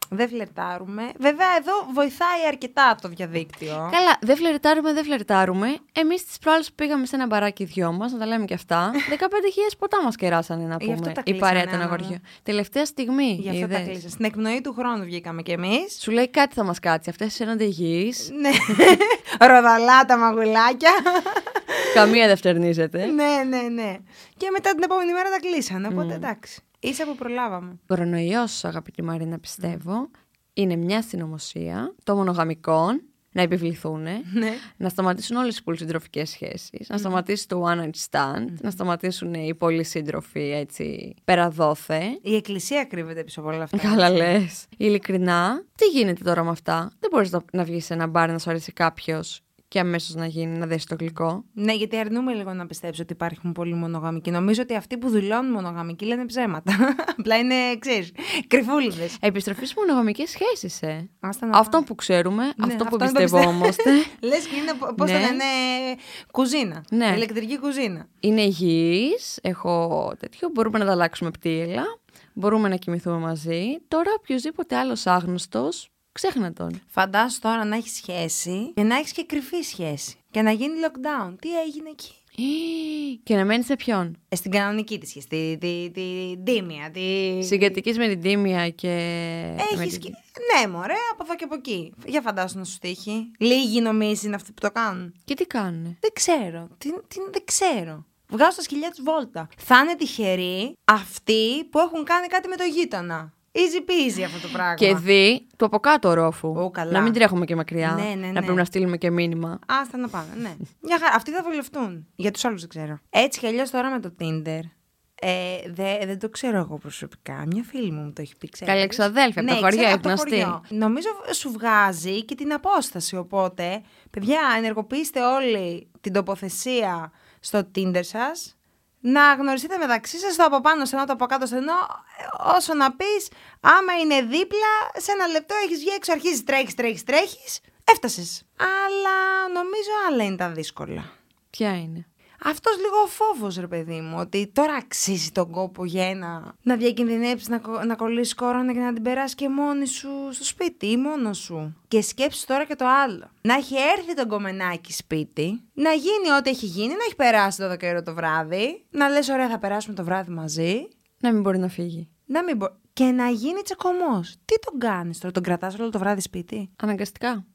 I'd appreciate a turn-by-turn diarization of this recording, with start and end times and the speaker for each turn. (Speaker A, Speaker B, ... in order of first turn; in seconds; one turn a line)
Speaker A: 0.1-4.0
Speaker B: 3.9-13.9
Speaker A: 10.8-12.2
Speaker A: 13.4-16.0
Speaker B: 16.0-18.7
Speaker A: 18.2-22.2
Speaker B: 21.9-23.1
Speaker A: 23.0-27.8
Speaker B: 25.9-26.3
Speaker B: 27.9-42.2
Speaker A: 34.3-34.6
Speaker A: 36.9-37.2
Speaker A: 42.2-44.4
Speaker B: 43.7-51.4
Speaker A: 51.5-59.2
Speaker B: 59.2-64.1
Speaker A: 61.2-61.8
Speaker A: 62.6-68.1
Speaker B: 65.0-65.4
Speaker B: 66.9-67.2
Speaker B: 68.2-76.8
Speaker A: 76.9-82.2
Speaker B: 82.4-84.2
Speaker A: 84.3-87.8
Speaker B: 87.4-90.1
Speaker A: 89.6-95.1
Speaker B: 95.3-96.0
Speaker A: 96.0-105.0
Speaker B: 104.8-109.6
Speaker A: 106.5-107.2
Speaker A: 107.8-108.6
Speaker A: 109.7-141.1
Speaker B: 118.7-120.6
Speaker B: 141.5-142.1
Speaker A: 142.4-160.9
Speaker B: 161.2-162.1
Speaker A: 162.3-166.7
Speaker B: 166.8-167.4